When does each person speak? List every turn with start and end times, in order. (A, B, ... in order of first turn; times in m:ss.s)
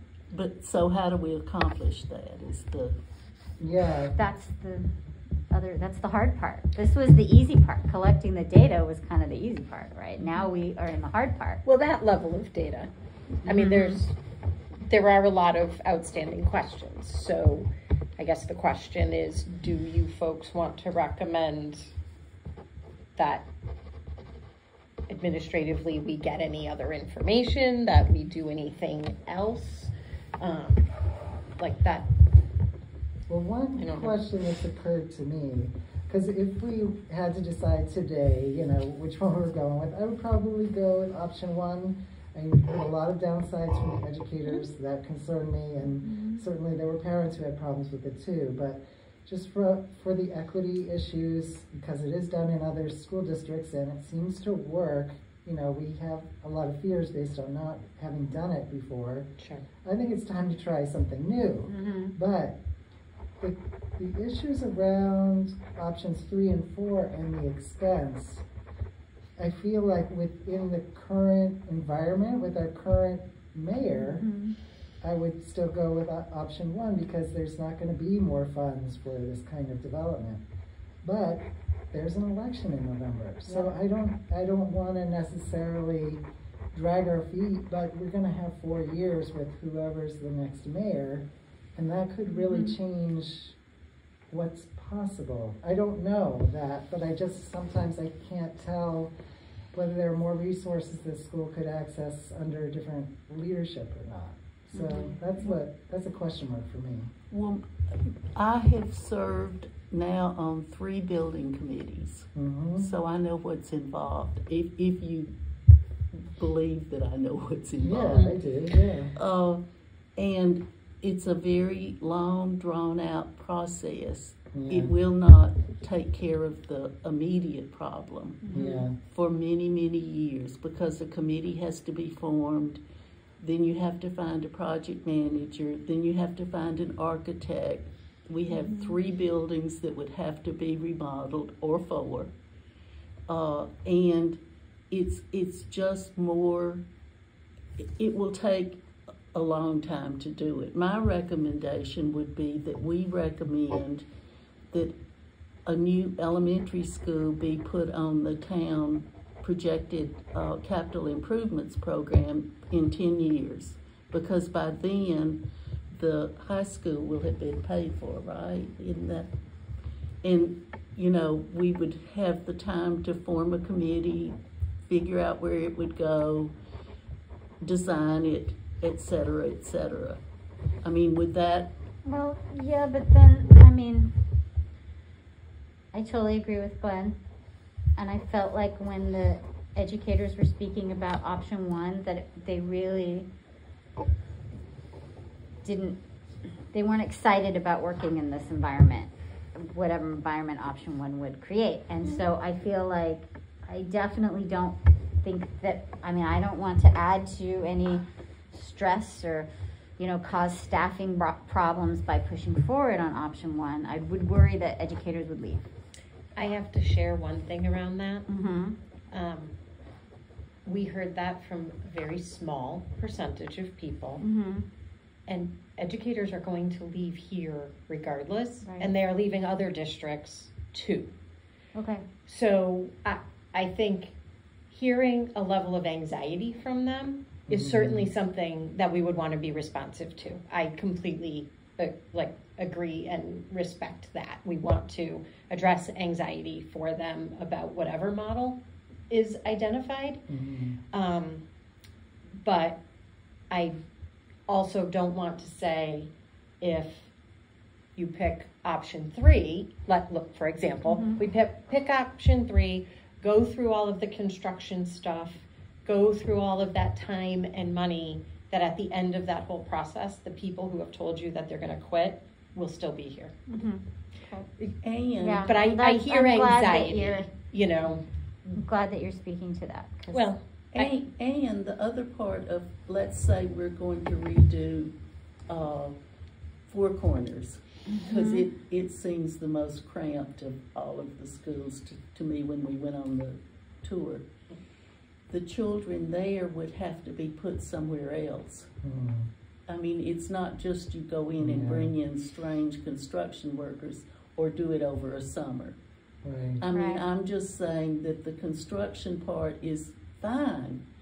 0:00.3-0:03.0 A
0:03.6-0:04.2 B
0:04.2-0:04.9 C
0:05.5-0:11.6 C
0:11.6-0:12.9 D
0:13.4-0:14.2 D
0:13.5-0:14.0 C
0:14.8-0:21.9 D
0:23.2-0:23.5 D
0:25.1-0:30.9 D
0:31.6-0:32.1 D
0:33.3-0:59.3 B
0:33.8-0:34.2 D
0:46.0-0:46.4 C
0:59.8-1:02.6 B
1:01.7-1:02.1 C
1:03.4-1:08.4 B
1:09.4-1:14.3 B
1:13.9-1:14.6 C
1:15.0-1:20.4 B
1:21.0-1:33.6 B
1:32.3-1:32.7 C
1:34.3-1:39.1 B
1:39.7-1:47.1 B
1:44.7-1:45.2 C
1:47.3-1:55.3 A
1:52.4-1:52.9 B
1:56.1-1:58.3 A
1:57.8-1:59.2 B
1:59.2-1:59.6 A
2:00.2-2:08.5 A
2:04.5-2:04.9 B
2:08.4-2:08.9 C
2:08.5-2:09.0 B
2:09.0-2:12.8 A
2:13.4-2:22.3 A
2:18.5-2:19.0 C
2:23.3-2:26.8 A
2:27.8-2:34.1 A
2:35.7-2:49.3 A
2:50.2-2:56.5 A
2:57.6-3:00.2 A
3:00.8-3:01.7 A
3:02.0-3:04.2 C
3:05.9-3:07.2 C
3:08.0-3:13.3 C
3:15.6-3:16.0 C
3:16.7-3:35.6 C
3:36.4-3:38.3 D
3:38.3-3:38.8 C
3:39.1-3:39.5 D
3:40.6-3:44.2 D
3:44.2-3:44.7 C
3:45.3-3:51.1 D
3:48.6-3:48.9 C
3:51.8-3:52.1 C
3:52.3-3:54.2 D
3:54.7-4:08.6 D
3:57.5-3:58.1 B
4:09.1-4:10.2 D
4:10.3-4:10.8 B
4:10.9-4:11.4 D
4:12.4-4:12.8 D
4:13.5-4:13.8 D
4:14.5-4:16.1 D
4:16.6-4:17.1 D
4:18.0-4:33.4 D
4:20.9-4:21.2 C
4:33.5-4:34.4 C
4:34.8-4:35.5 A
4:35.2-4:37.3 C
4:35.5-4:38.5 D
4:38.5-4:40.3 C
4:40.1-4:40.9 D
4:40.8-4:44.9 A
4:45.5-4:46.0 A
4:46.7-4:54.3 A
4:47.9-4:48.5 C
4:55.3-4:58.7 A
4:58.8-4:59.3 B
4:59.7-5:05.8 A
5:01.4-5:01.9 B
5:06.2-5:06.6 B
5:06.6-5:10.8 A
5:06.7-5:07.0 C